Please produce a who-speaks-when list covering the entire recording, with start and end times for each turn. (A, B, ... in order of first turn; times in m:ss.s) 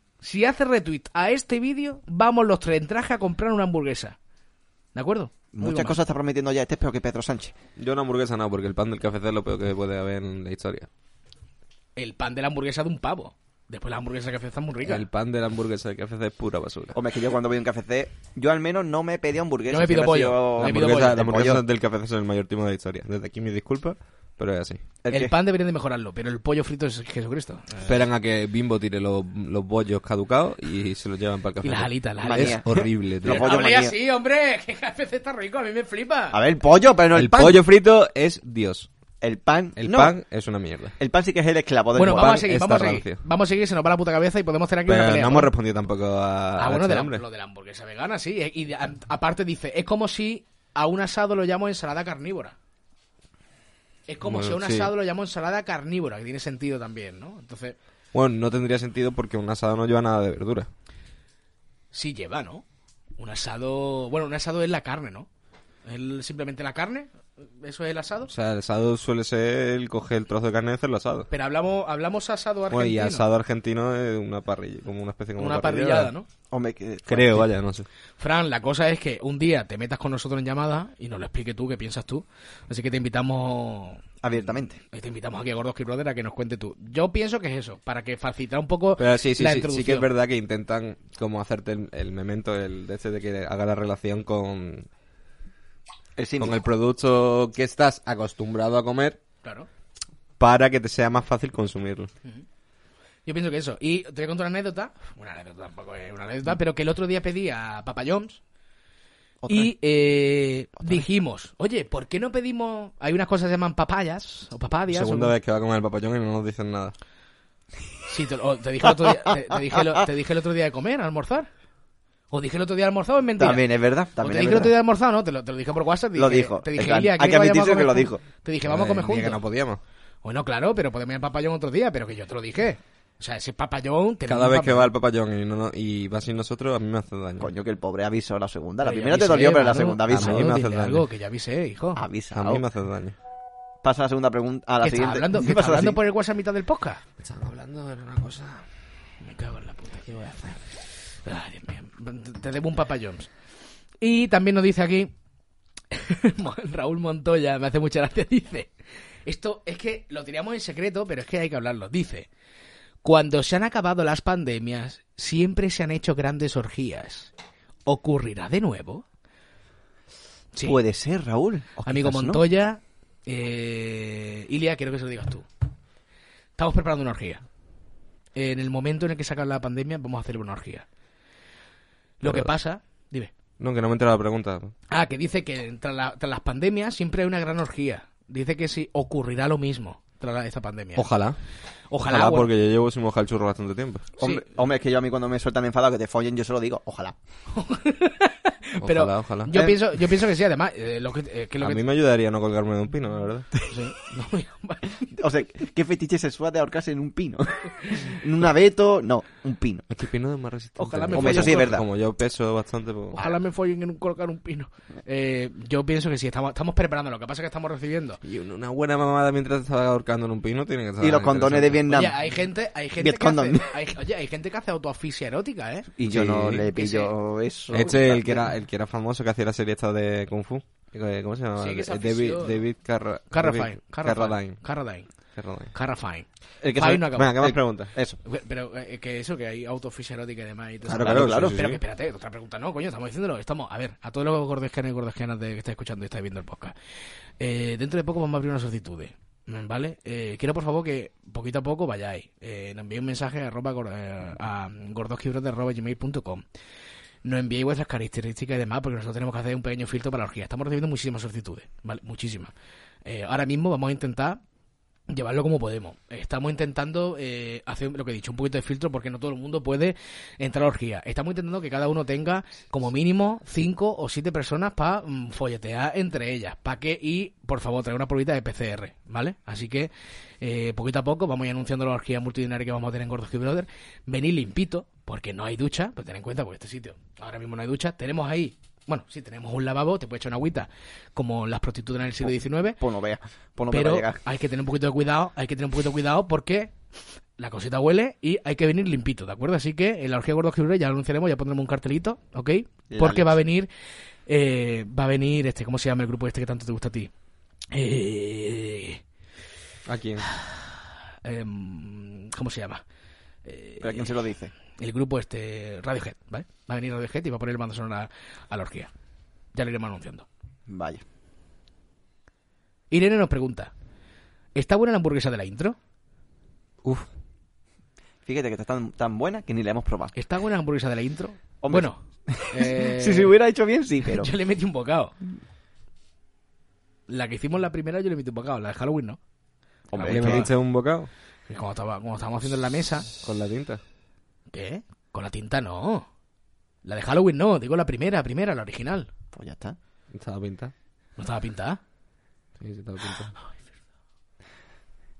0:00.2-0:04.2 A
0:05.0-0:06.0 A
0:05.5-0:07.5 B
0:07.8-0:10.9 C
0:12.0-0:15.0 A
0:14.8-0:17.0 C
0:17.0-0:21.6 B
0:19.7-0:21.2 A
0:20.6-0:24.8 C
0:25.0-0:25.3 B
0:25.1-0:27.9 A
0:27.8-0:33.5 C
0:31.6-0:36.4 A
0:32.2-0:34.0 B
0:36.3-0:37.6 B
0:37.1-0:38.9 C
0:39.2-0:40.1 B
0:39.8-0:41.0 C
0:41.0-0:42.4 B
0:42.0-0:45.5 A
0:42.1-0:43.2 C
0:44.9-0:47.2 C
0:46.6-0:52.6 A
0:54.1-0:57.8 A
0:54.2-0:54.9 C
0:58.1-1:00.7 C
1:01.9-1:02.6 A
1:03.2-1:05.3 A
1:05.9-1:08.3 A
1:08.3-1:11.3 C
1:11.3-1:13.3 A
1:12.7-1:16.1 C
1:15.4-1:16.3 A
1:16.5-1:17.5 B
1:17.1-1:17.9 C
1:18.2-1:24.0 A
1:24.2-1:24.8 B
1:24.8-1:30.1 A
1:29.0-1:34.9 C
1:36.2-1:36.6 B
1:36.4-1:39.2 C
1:40.4-1:42.1 C
1:43.3-1:48.4 A
1:49.4-1:49.7 B
1:49.5-1:55.3 A
1:54.9-1:57.0 C
1:58.1-2:01.5 A
2:02.3-2:03.6 A
2:03.4-2:04.7 B
2:04.2-2:09.4 A
2:06.2-2:08.2 B
2:08.6-2:09.8 C
2:10.2-2:14.9 A
2:14.3-2:17.5 C
2:17.4-2:20.5 B
2:18.8-2:22.0 A
2:20.1-2:21.0 C
2:22.0-2:22.6 B
2:22.3-2:23.2 C
2:23.8-2:26.0 B
2:24.8-2:27.0 A
2:27.2-2:28.7 C
2:29.2-2:33.3 A
2:34.0-2:35.1 A
2:35.9-2:38.7 A
2:39.3-2:42.3 A
2:43.0-2:47.3 A
2:47.9-2:49.0 A
2:50.6-2:52.4 B
2:51.9-2:55.5 A
2:56.6-2:57.4 A
2:58.4-3:00.9 A
3:02.2-3:03.3 A
3:02.2-3:02.5 C
3:03.6-3:04.7 C
3:04.9-3:11.1 A
3:11.0-3:11.4 C
3:11.9-3:12.5 A
3:12.1-3:14.1 C
3:14.2-3:17.2 B
3:17.5-3:21.8 A
3:18.8-3:19.5 C
3:19.5-3:19.8 B
3:21.6-3:23.5 C
3:23.7-3:25.1 A
3:25.2-3:29.9 B
3:29.9-3:33.2 C
3:30.8-3:31.8 A
3:31.1-3:31.8 B
3:33.1-3:38.2 A
3:38.2-3:41.9 C
3:41.0-3:42.2 B
3:41.9-3:45.9 A
3:43.0-3:43.7 B
3:46.0-3:48.5 B
3:46.0-3:46.7 C
3:46.7-3:47.1 A
3:47.7-3:54.6 C
3:51.6-3:52.6 A
3:53.3-3:55.1 A
3:55.4-3:55.7 C
3:55.7-3:57.5 A
3:56.6-3:58.2 B
3:57.1-3:57.9 C
3:58.2-4:06.8 A
4:00.8-4:01.8 C
4:00.9-4:01.6 B
4:07.4-4:16.4 A
4:17.2-4:22.5 A
4:23.0-4:24.4 A
4:25.1-4:52.8 A
4:52.8-4:54.2 B
4:53.7-4:56.7 A
4:57.4-5:03.7 A
5:02.9-5:03.4 B
5:04.3-5:07.1 A
5:07.7-5:09.0 A
5:09.9-5:10.2 C
5:11.2-5:12.8 A
5:13.4-5:18.9 A
5:13.8-5:14.5 B
5:19.5-5:20.3 A
5:20.7-5:21.0 B
5:22.9-5:23.7 A
5:24.6-5:25.8 A
5:28.3-5:30.2 B
5:30.2-5:33.3 A
5:31.6-5:34.3 B
5:34.1-5:35.1 A
5:37.1-5:39.2 A
5:39.9-5:40.5 B
5:39.9-5:40.5 A
5:40.0-5:41.1 C
5:41.5-5:43.1 A
5:43.1-5:43.8 C
5:44.5-5:46.1 A
5:46.8-5:49.1 A
5:49.3-5:49.8 B
5:50.1-5:50.7 C
5:51.2-5:51.8 A
5:52.6-5:53.3 C